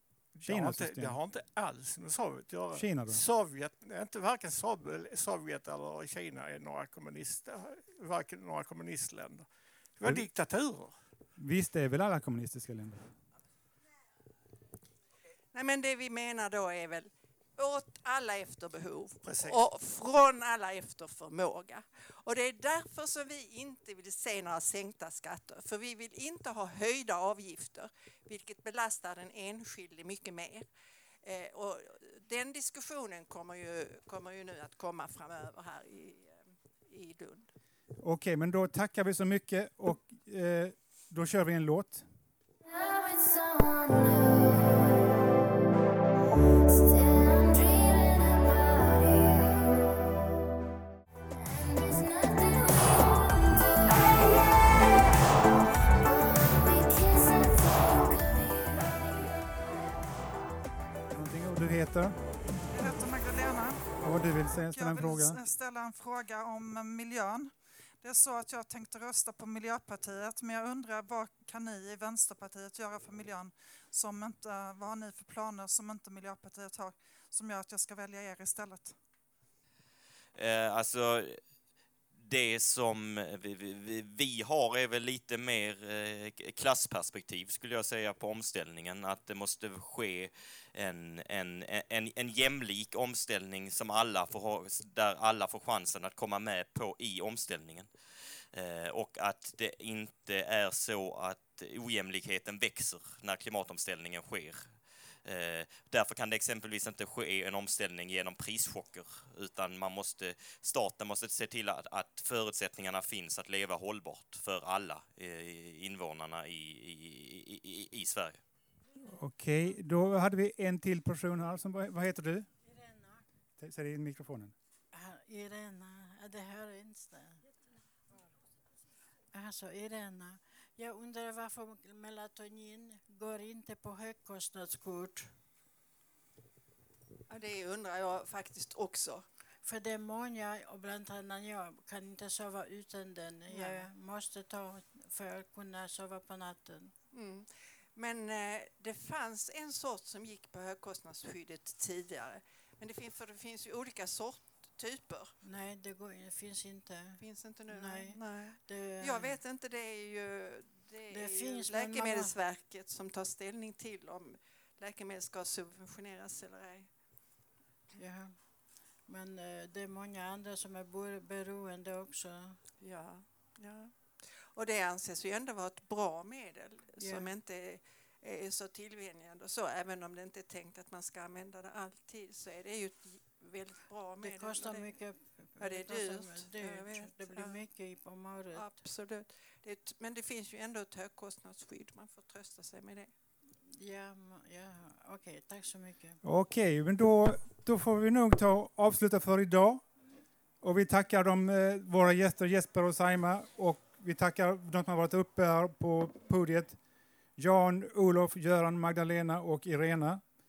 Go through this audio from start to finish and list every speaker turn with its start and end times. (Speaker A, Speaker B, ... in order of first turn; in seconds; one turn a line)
Speaker A: 0.3-10.9
Speaker B: 0.4-1.2
Speaker B: 2.7-3.2
Speaker B: 11.4-13.2
Speaker C: 15.5-30.7
Speaker A: 19.2-19.6
Speaker C: 31.2-37.5
Speaker B: 38.0-42.1
Speaker B: 61.1-62.2
Speaker D: 62.7-63.9
Speaker B: 64.0-65.4
Speaker D: 64.7-79.0
Speaker E: 80.3-81.4
Speaker E: 82.2-97.9
Speaker E: 98.5-104.7
Speaker E: 105.2-118.4
Speaker B: 119.0-122.5
Speaker F: 122.7-123.2
Speaker B: 123.6-124.5
Speaker F: 124.9-127.4
Speaker F: 129.3-135.3
Speaker C: 137.3-139.3
Speaker F: 139.6-146.9
Speaker C: 143.5-143.9
Speaker C: 147.1-155.3
Speaker F: 155.4-159.4
Speaker C: 157.2-166.9
Speaker F: 161.1-162.4
Speaker F: 167.9-168.4
Speaker F: 169.1-172.6
Speaker C: 172.8-184.9
Speaker F: 177.0-177.3
Speaker F: 184.2-188.8
Speaker C: 185.6-187.6
Speaker C: 188.5-193.1
Speaker F: 193.7-196.2
Speaker B: 196.2-199.9
Speaker B: 200.6-206.8
Speaker B: 207.4-210.2